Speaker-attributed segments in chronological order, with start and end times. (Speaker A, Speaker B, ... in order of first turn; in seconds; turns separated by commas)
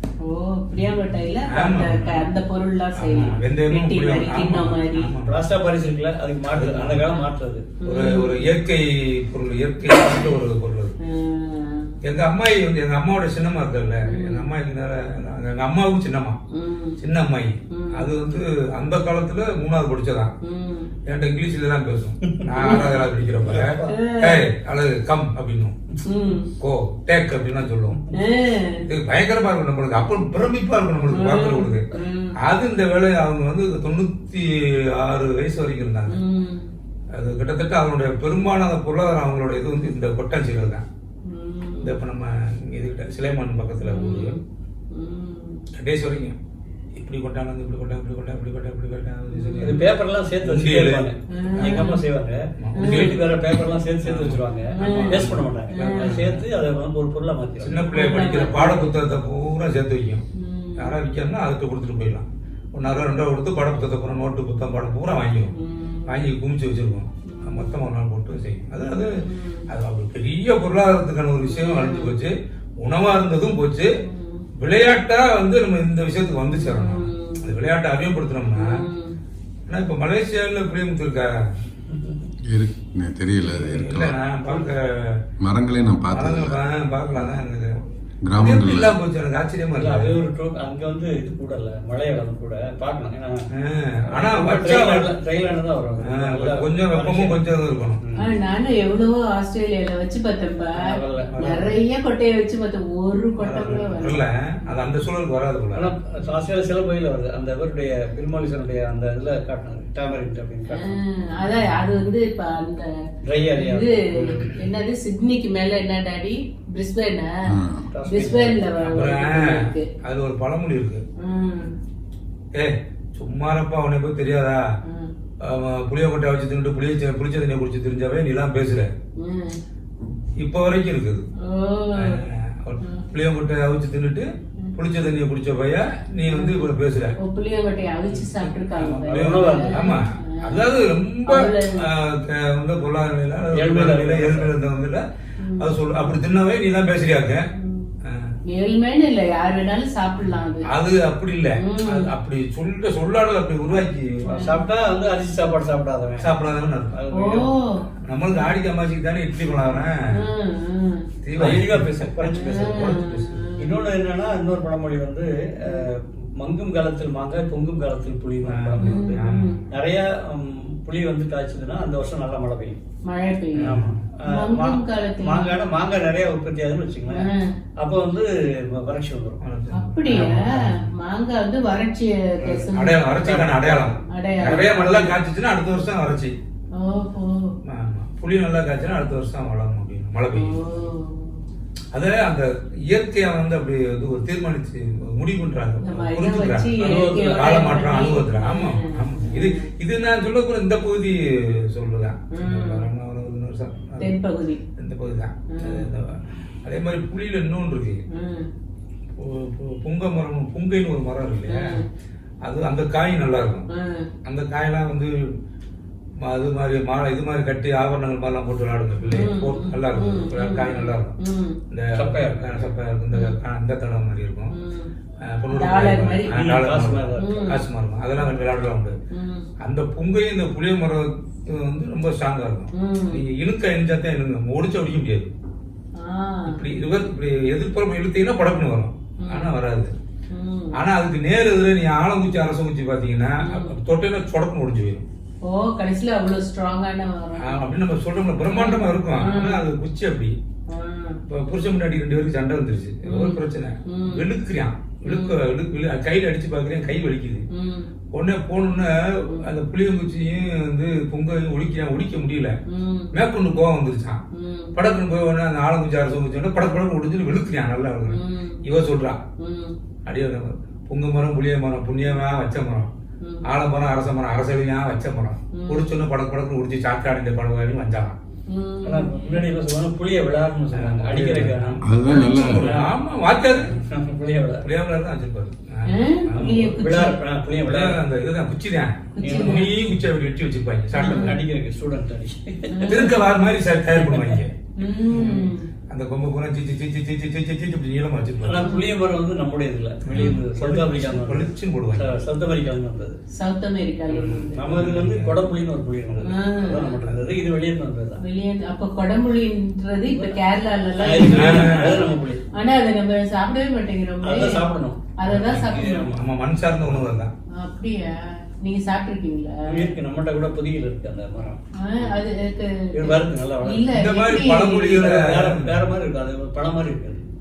Speaker A: 0.2-5.1, Speaker B: 1.5-2.3, Speaker B: 3.0-5.4, Speaker C: 5.2-7.7, Speaker B: 6.5-7.0, Speaker A: 7.8-8.4, Speaker B: 7.9-10.9, Speaker A: 11.0-11.9, Speaker B: 12.0-16.4, Speaker A: 14.1-14.5, Speaker A: 16.5-17.0, Speaker B: 17.0-20.3, Speaker A: 17.7-18.1, Speaker A: 20.4-20.9, Speaker B: 21.1-25.8, Speaker C: 22.3-22.9, Speaker A: 22.6-22.9, Speaker C: 23.4-24.0, Speaker A: 23.9-24.4, Speaker A: 26.1-26.5, Speaker B: 26.6-28.0, Speaker A: 28.1-28.8, Speaker B: 28.9-31.9, Speaker A: 31.1-32.4, Speaker B: 32.4-36.2, Speaker A: 36.1-36.7, Speaker B: 37.1-40.8, Speaker A: 41.3-42.0, Speaker B: 41.8-44.4, Speaker A: 43.8-44.4, Speaker A: 44.9-45.6, Speaker B: 45.7-46.4, Speaker B: 47.0-49.8, Speaker A: 49.3-49.9, Speaker C: 49.6-57.8, Speaker B: 50.4-51.9, Speaker A: 51.3-52.0, Speaker B: 52.6-53.2, Speaker A: 52.8-53.2, Speaker B: 54.0-56.4, Speaker A: 54.8-56.2, Speaker B: 57.6-60.2, Speaker A: 57.9-58.9, Speaker A: 60.4-61.0, Speaker B: 60.8-65.5, Speaker A: 65.5-66.3, Speaker B: 66.1-69.1, Speaker A: 67.3-67.7, Speaker A: 69.2-69.7, Speaker B: 69.7-73.9, Speaker A: 71.5-72.1, Speaker A: 74.0-74.5, Speaker B: 74.6-78.7, Speaker A: 76.5-77.5, Speaker A: 78.5-79.2, Speaker B: 79.7-81.4, Speaker C: 81.9-82.2, Speaker D: 82.4-84.2, Speaker B: 83.4-85.2, Speaker D: 85.4-86.6, Speaker B: 86.1-87.8, Speaker D: 88.2-89.0, Speaker B: 88.3-90.2, Speaker C: 89.8-93.5, Speaker B: 93.6-95.1, Speaker C: 94.1-97.4, Speaker B: 96.0-98.0, Speaker C: 98.0-98.4, Speaker A: 98.2-104.2, Speaker C: 100.8-101.7, Speaker B: 101.3-101.8, Speaker B: 103.4-105.9, Speaker C: 105.7-111.0, Speaker A: 110.7-113.0, Speaker C: 113.3-114.6, Speaker A: 113.5-117.5, Speaker D: 117.5-117.9, Speaker C: 117.9-118.7, Speaker A: 118.1-119.9, Speaker B: 118.8-121.0, Speaker A: 121.2-121.7, Speaker B: 122.5-124.6, Speaker A: 124.8-125.1, Speaker B: 125.4-128.9, Speaker A: 129.2-129.6, Speaker B: 130.4-131.3, Speaker A: 131.5-132.2, Speaker B: 132.0-137.2, Speaker A: 136.3-136.7, Speaker A: 137.2-140.7, Speaker B: 138.8-145.0, Speaker C: 139.1-139.9, Speaker A: 141.3-141.8, Speaker C: 143.5-144.5, Speaker A: 145.4-146.2, Speaker B: 145.6-147.4, Speaker A: 147.5-147.9, Speaker B: 148.0-148.3, Speaker A: 148.5-150.7, Speaker B: 150.7-154.3, Speaker A: 151.6-152.1, Speaker A: 154.3-154.7, Speaker C: 154.3-156.4, Speaker B: 156.2-157.0, Speaker C: 156.9-157.6, Speaker A: 157.1-158.5, Speaker B: 158.1-160.2, Speaker A: 160.2-161.1, Speaker B: 161.2-163.5, Speaker C: 161.4-163.0, Speaker A: 162.3-163.8, Speaker C: 163.6-169.0, Speaker B: 168.4-169.6, Speaker A: 168.8-169.6, Speaker C: 169.7-172.8, Speaker A: 173.1-175.7, Speaker B: 173.6-174.0, Speaker C: 173.6-179.4, Speaker A: 177.1-177.5, Speaker B: 179.4-180.8, Speaker A: 179.7-183.0, Speaker B: 182.4-186.4, Speaker C: 183.2-184.0, Speaker A: 184.1-185.1, Speaker A: 186.8-187.5, Speaker B: 187.6-190.6, Speaker A: 190.3-191.4, Speaker B: 191.9-204.1, Speaker A: 195.8-199.7, Speaker C: 196.8-197.7, Speaker A: 202.3-202.8, Speaker A: 204.0-204.6, Speaker B: 204.8-208.0, Speaker A: 205.5-205.8, Speaker A: 208.1-208.5, Speaker B: 209.2-211.6, Speaker A: 211.5-211.8, Speaker B: 212.4-213.7, Speaker A: 213.7-214.1, Speaker B: 214.2-215.1, Speaker B: 216.2-221.2, Speaker A: 219.1-221.6, Speaker B: 221.7-224.5, Speaker C: 221.9-222.7, Speaker A: 224.5-224.9, Speaker B: 225.2-229.0, Speaker A: 225.5-226.3, Speaker C: 226.3-227.5, Speaker A: 227.2-227.6, Speaker A: 229.1-229.5, Speaker B: 229.6-235.3, Speaker A: 232.7-233.2, Speaker A: 236.0-236.6, Speaker B: 236.5-239.9, Speaker A: 239.2-239.6, Speaker A: 240.3-240.8, Speaker B: 240.8-245.1, Speaker A: 243.4-243.8, Speaker A: 245.4-247.6, Speaker B: 247.4-250.3, Speaker A: 248.5-249.6, Speaker A: 250.7-251.2, Speaker B: 251.3-257.4, Speaker A: 253.1-254.3, Speaker A: 255.1-255.4, Speaker A: 257.5-257.9, Speaker B: 258.1-262.6, Speaker A: 262.7-263.1, Speaker B: 263.1-264.2, Speaker A: 264.4-264.7, Speaker B: 264.8-269.2, Speaker A: 268.1-268.6, Speaker A: 269.4-269.8, Speaker B: 270.1-272.9, Speaker B: 273.4-278.1, Speaker A: 275.5-275.9, Speaker A: 278.5-279.4, Speaker C: 278.8-282.9, Speaker B: 280.7-283.7, Speaker D: 281.8-282.7, Speaker C: 283.6-284.7, Speaker B: 284.6-286.7, Speaker A: 285.9-287.2, Speaker C: 286.4-288.0, Speaker B: 287.7-291.4, Speaker A: 289.1-289.7, Speaker C: 289.2-289.7, Speaker C: 290.9-292.8, Speaker A: 291.0-291.4, Speaker A: 292.7-293.3, Speaker B: 292.9-294.5, Speaker A: 294.8-295.7, Speaker B: 295.1-298.6, Speaker C: 298.4-303.2, Speaker A: 298.6-298.9, Speaker B: 300.1-302.1, Speaker A: 303.4-304.8, Speaker C: 304.1-308.2, Speaker B: 304.7-305.4, Speaker A: 306.3-306.9, Speaker B: 306.9-307.2, Speaker A: 308.2-314.7, Speaker C: 310.1-310.4, Speaker C: 311.0-312.4, Speaker B: 311.3-312.0, Speaker C: 314.2-316.2, Speaker A: 315.2-316.1, Speaker B: 316.1-317.3, Speaker A: 317.6-319.9, Speaker C: 319.7-322.2, Speaker A: 321.9-325.1, Speaker C: 322.9-323.9, Speaker B: 323.9-325.8, Speaker C: 324.9-327.2